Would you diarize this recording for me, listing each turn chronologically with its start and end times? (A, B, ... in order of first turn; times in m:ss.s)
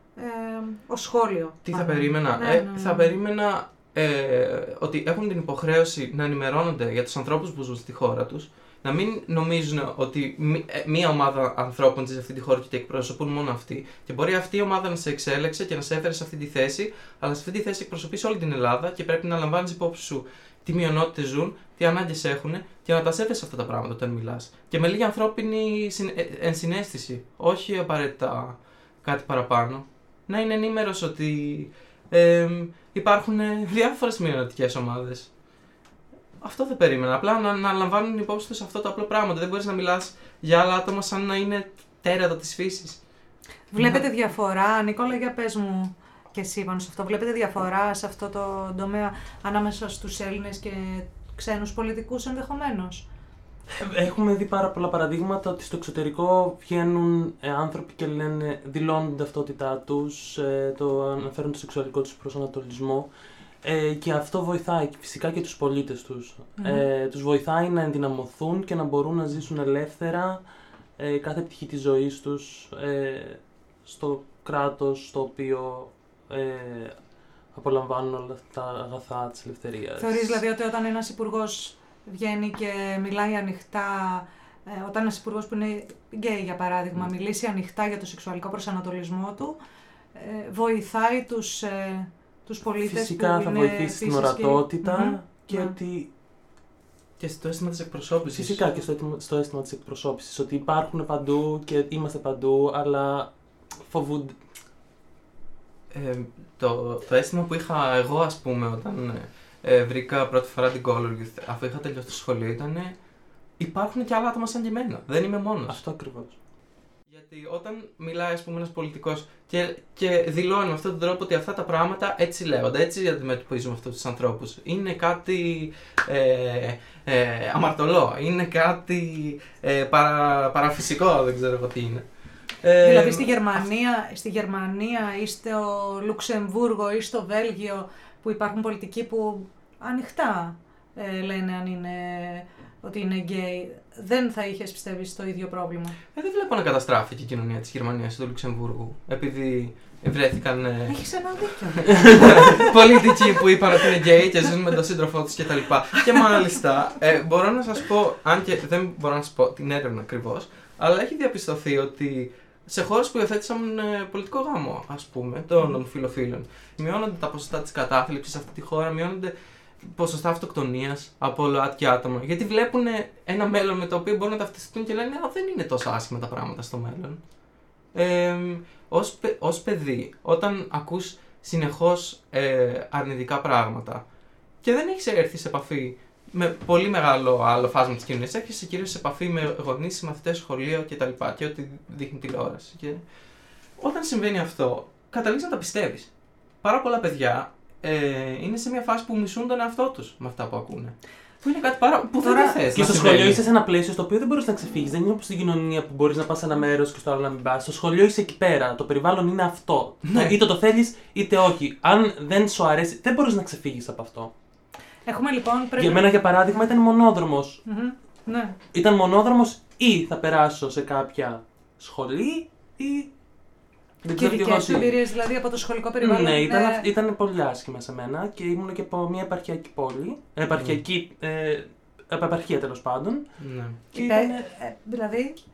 0:00.2-0:03.1 A
0:01.6-0:35.3 B
0:36.4-0:43.0 B
0:43.7-0:53.0 A
0:43.8-0:44.0 B
0:53.7-1:03.1 C
1:03.6-1:10.4 C
1:06.6-1:06.8 A
1:11.0-1:17.0 C
1:17.5-1:20.4 C
1:20.0-1:29.6 A
1:30.1-1:35.7 A
1:32.8-1:36.1 C
1:37.2-1:38.7 B
1:38.3-1:44.4 C
1:45.9-1:52.9 B
1:53.6-1:55.8 B
1:55.6-1:56.3 C
1:57.1-2:12.0 B
2:12.6-2:13.6 B
2:12.8-2:26.0 A
2:26.1-2:31.0 B
2:30.9-2:32.8 A
2:31.8-2:57.2 B
2:57.9-3:04.0 B
3:04.6-3:13.0 B
3:13.8-3:16.1 B
3:16.6-3:23.4 B
3:22.2-3:22.6 A
3:22.7-3:34.3 C
3:30.1-3:30.4 B
3:35.0-3:36.2 A
3:35.8-3:37.6 C
3:37.6-3:38.6 A
3:38.7-3:43.1 C
3:44.0-3:45.0 C
3:44.1-3:46.8 A
3:46.0-3:53.2 C
3:50.5-3:50.8 B
3:53.4-3:53.8 B
3:53.9-3:54.5 C
3:53.9-3:55.4 A